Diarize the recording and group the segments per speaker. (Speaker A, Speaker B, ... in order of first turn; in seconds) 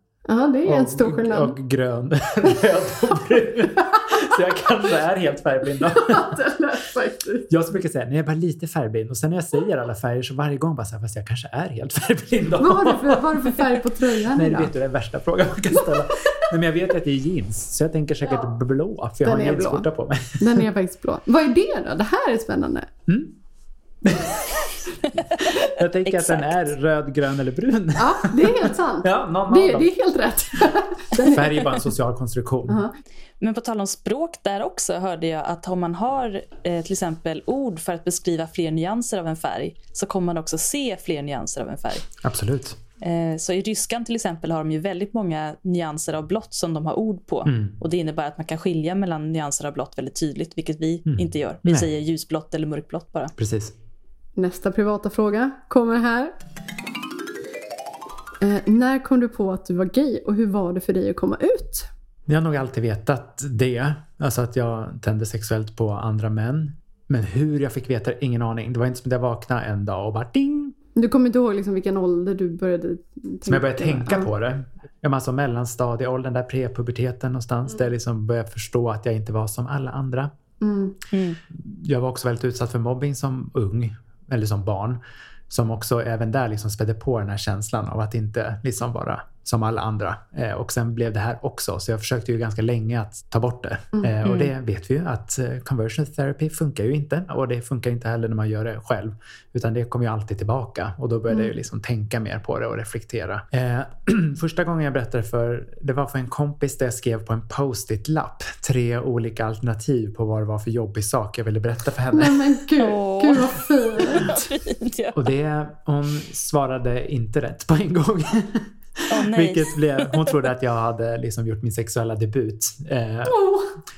Speaker A: 0.2-1.5, 3.8-4.4, 5.8-7.5, 12.6-14.7, 19.2-19.9, 20.4-22.9, 27.9-31.7, 32.7-32.9, 54.4-56.3, 58.4-61.9, 70.9-74.3, 80.6-81.0, 112.1-114.5, 123.3-123.7
Speaker B: 0.7-6.4, 7.5-20.6, 23.1-23.4, 24.0-29.9, 31.2-32.8, 42.2-42.8, 47.4-47.8, 51.1-51.9, 53.4-53.7, 62.3-70.7, 73.5-80.3, 81.5-112.5, 115.1-123.4
Speaker C: 25.1-26.7, 33.4-42.1, 43.0-53.3, 81.1-81.4, 94.2-94.5, 112.8-115.3, 119.1-120.3